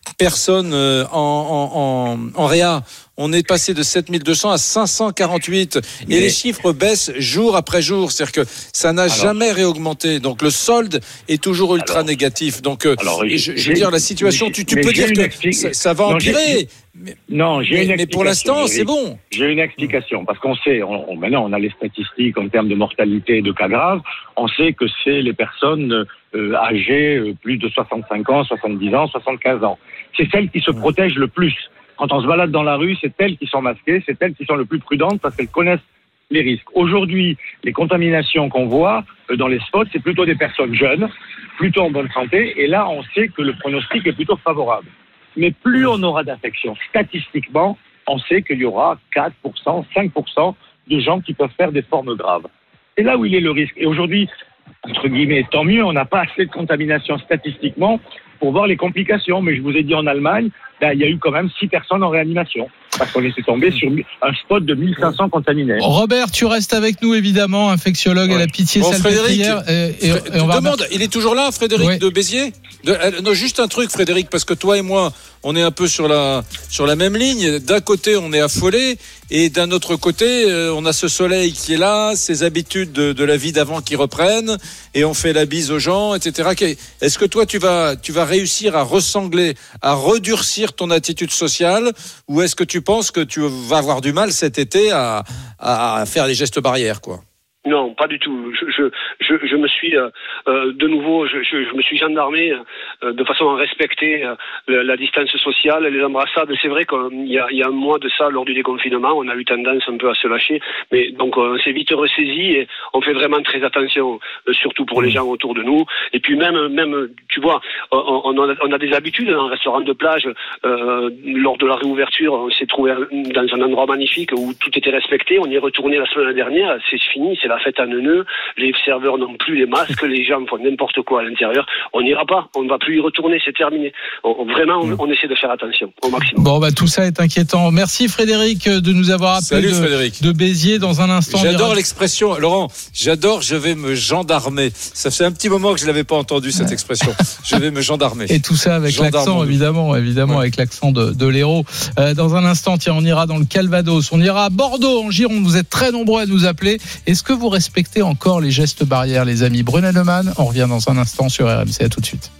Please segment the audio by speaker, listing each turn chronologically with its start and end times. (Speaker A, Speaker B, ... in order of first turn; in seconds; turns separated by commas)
Speaker A: 0.2-17.2, Speaker B: 6.1-6.3, Speaker B: 9.1-9.3, Speaker B: 11.8-12.1, Speaker B: 13.0-16.6, Speaker B: 17.3-54.3, Speaker A: 17.7-19.2, Speaker B: 54.8-65.8, Speaker C: 65.8-70.8, Speaker A: 68.3-97.2, Speaker D: 97.6-136.5, Speaker C: 136.3-141.8, Speaker A: 139.4-140.2, Speaker A: 141.3-149.6, Speaker C: 148.3-162.3